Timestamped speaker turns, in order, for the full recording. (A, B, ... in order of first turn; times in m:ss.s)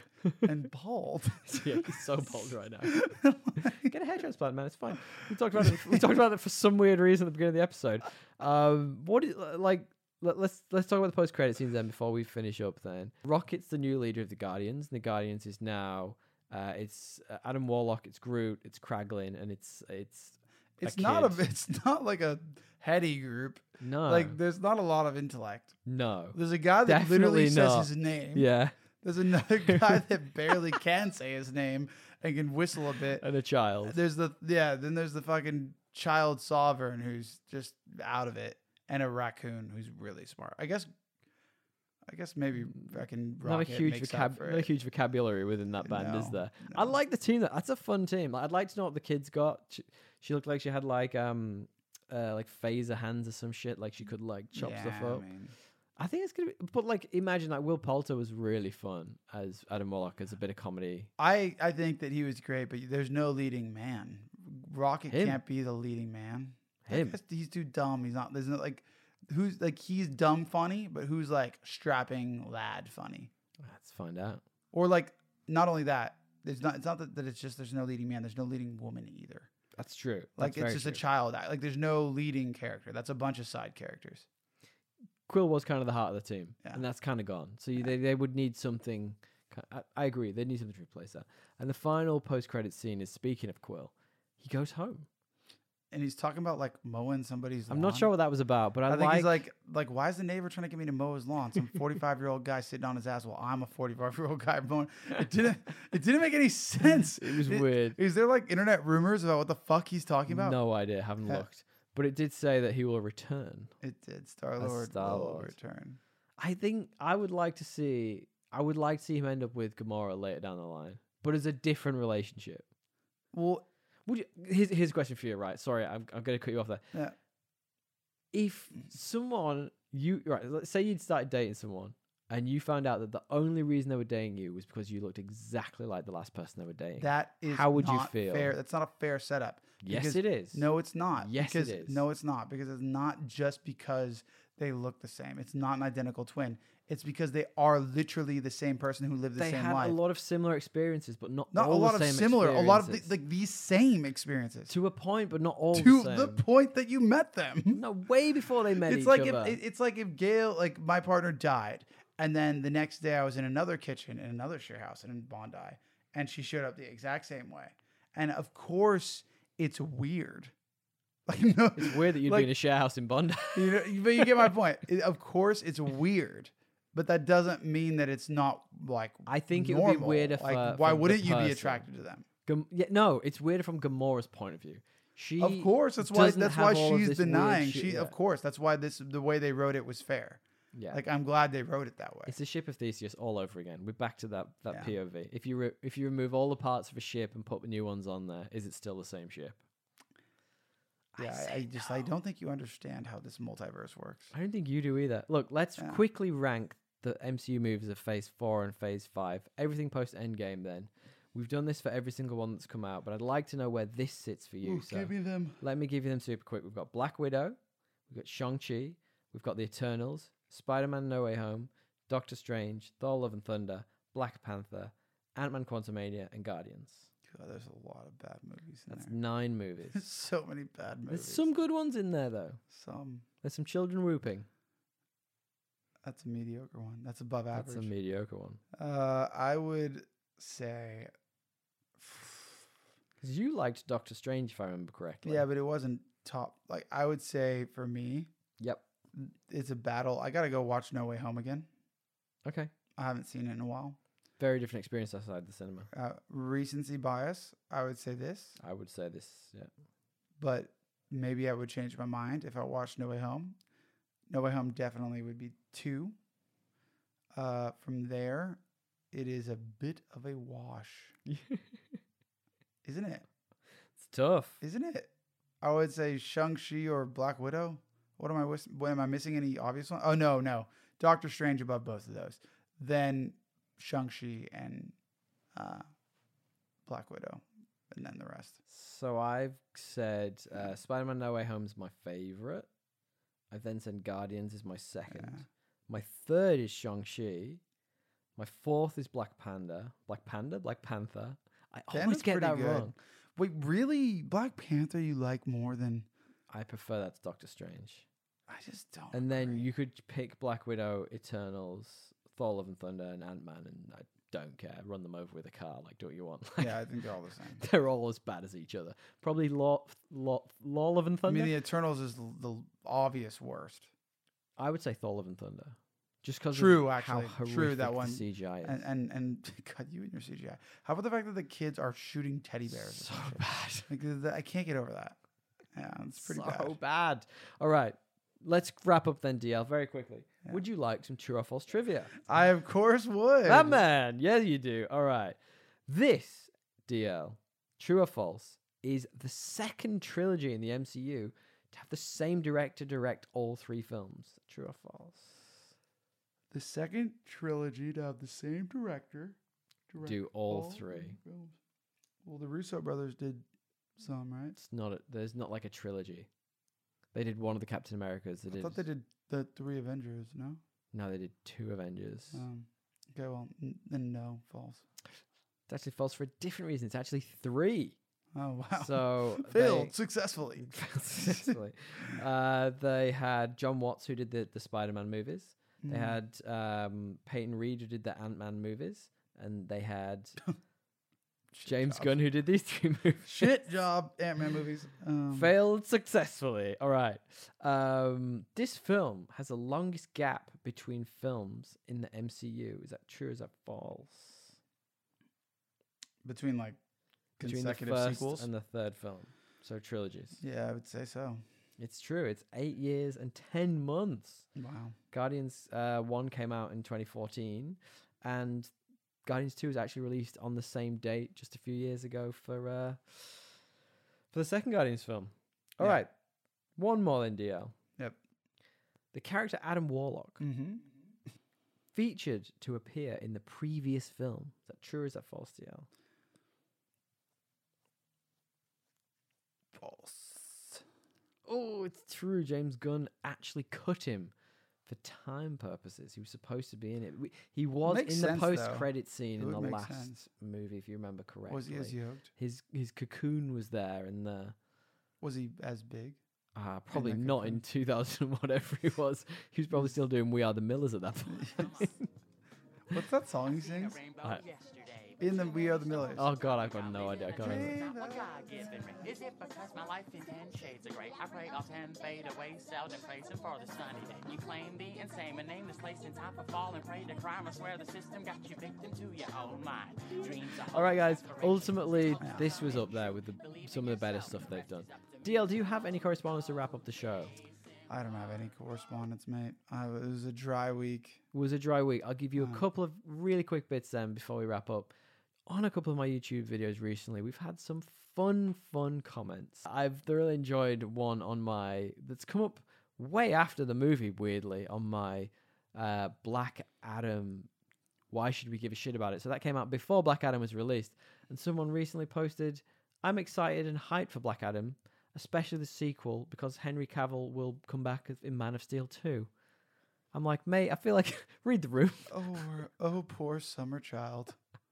0:00.4-0:03.9 A
0:01.5-0:21.5 B
0:05.6-0:06.0 A
0:20.8-0:25.8 A
0:23.8-0:24.4 B
0:25.9-0:28.8 B
0:26.4-0:28.5 A
0:29.0-0:33.2 A
0:29.6-0:30.6 B
0:33.2-0:34.0 B
0:33.8-0:40.9 A
0:42.1-0:44.7 A
0:43.4-0:55.3 B
0:45.8-0:47.0 A
0:54.6-0:55.5 A
0:56.0-1:01.1 B
1:01.2-1:13.3 A
1:05.1-1:05.4 B
1:06.9-1:07.2 B
1:13.6-1:14.4 B
1:14.7-1:19.5 A
1:19.8-1:21.0 B
1:20.4-1:24.3 A
1:25.3-1:35.1 B
1:35.9-1:38.1 A
1:37.7-1:39.4 B
1:38.9-1:50.6 A
1:46.8-1:48.0 B
1:50.3-1:53.7 B
1:53.8-1:56.0 A
1:54.6-1:55.5 B
1:56.4-2:02.6 B
2:03.3-2:03.6 A
2:04.1-2:06.8 B
2:08.3-2:18.5 B
2:17.0-2:30.0 A
2:19.8-2:22.0 B
2:29.4-2:33.1 B
2:31.5-2:34.7 A
2:34.7-2:36.4 B
2:35.7-2:37.8 A
2:37.7-2:39.6 B
2:38.8-2:50.5 A
2:51.3-2:52.5 A
2:51.8-2:54.5 B
2:53.5-3:02.3 A
2:59.3-3:01.8 B
3:02.5-3:08.2 B
3:05.4-3:10.4 A
3:10.7-3:11.0 B
3:10.9-3:12.3 A
3:12.3-3:19.6 B
3:14.7-3:15.0 A
3:21.2-3:21.6 B
3:21.2-3:24.3 A
3:24.3-3:37.6 B
3:34.6-3:35.6 A
3:38.1-3:47.1 B
3:47.3-3:49.2 A
3:48.9-3:50.0 B
3:49.9-3:51.5 A
3:51.1-3:52.6 B
3:52.7-3:53.2 A
3:53.4-3:54.5 B
3:56.0-3:57.9 A
3:57.5-3:58.6 B
3:58.8-4:01.1 A
4:02.0-4:02.6 A
4:03.2-4:05.4 B
4:05.2-4:08.3 A
4:08.6-4:08.8 B
4:09.1-4:11.7 A
4:12.4-4:12.7 B
4:13.0-4:14.0 A
4:14.4-4:15.9 B
4:15.9-4:18.6 A
4:18.6-4:19.7 B
4:20.4-4:23.6 A
4:24.3-4:26.2 A
4:27.3-4:28.6 A
4:29.1-4:31.2 A
4:31.3-4:31.8 B
4:32.8-4:33.2 A
4:34.0-4:34.6 B
4:34.6-4:35.1 A
4:35.6-4:45.0 A
4:45.6-4:45.9 A
4:46.9-4:48.6 A
4:48.7-4:52.7 B
4:53.5-4:57.6 B
4:55.1-4:55.4 A
4:58.4-5:03.0 B
5:01.9-5:06.1 A
5:06.5-5:08.1 B
5:08.5-5:09.7 A
5:09.1-5:16.8 B
5:16.6-5:17.6 A
5:17.6-5:21.5 B
5:21.3-5:23.9 A
5:24.6-5:28.8 B
5:26.5-5:35.2 A
5:32.7-5:33.9 B
5:35.7-5:36.8 A
5:36.2-5:42.2 B
5:42.2-5:43.8 A
5:43.4-5:55.6 B
5:56.5-5:59.4 A
5:59.9-6:01.6 A
6:00.0-6:01.2 B
6:02.2-6:03.4 A
6:04.0-6:04.6 A
6:04.6-6:06.3 B
6:07.1-6:08.8 B
6:08.5-6:10.6 A
6:10.9-6:12.4 B
6:12.3-6:14.8 A
6:15.7-6:18.0 B
6:18.4-6:22.2 A
6:18.7-6:19.9 B
6:20.6-6:30.4 B
6:25.8-6:26.2 A
6:31.5-6:32.2 A
6:31.6-6:33.6 B
6:33.2-6:35.5 A
6:35.3-6:44.6 B
6:46.2-6:46.8 A
6:47.4-6:48.5 A
6:47.4-6:50.4 B
6:50.4-6:51.4 A
6:51.8-6:54.5 B
6:54.6-6:55.0 A
6:55.1-6:58.7 B
6:59.2-7:03.5 B
7:04.3-7:06.1 B
7:06.8-7:07.8 B
7:09.1-7:10.4 B
7:10.4-7:10.9 A
7:11.9-7:15.9 B
7:19.8-7:20.8 A
7:21.5-7:24.3 B
7:24.8-7:34.6 B
7:27.9-7:30.2 A
7:31.5-7:32.3 A
7:35.2-7:36.2 A
7:36.6-7:42.1 B
7:36.9-7:37.6 A
7:41.3-7:41.8 A
7:41.6-7:41.9 C
7:42.9-7:44.0 A
7:43.4-8:08.5 C
7:45.2-7:46.3 A
7:46.2-7:47.8 B
7:47.4-7:48.7 A
8:00.2-8:07.3 B
8:02.2-8:02.5 A
8:07.9-8:11.2 A
8:11.3-8:14.9 B
8:12.4-8:12.6 A
8:15.5-8:27.5 B
8:28.1-8:39.3 B
8:40.1-8:42.4 B
8:42.1-8:44.4 A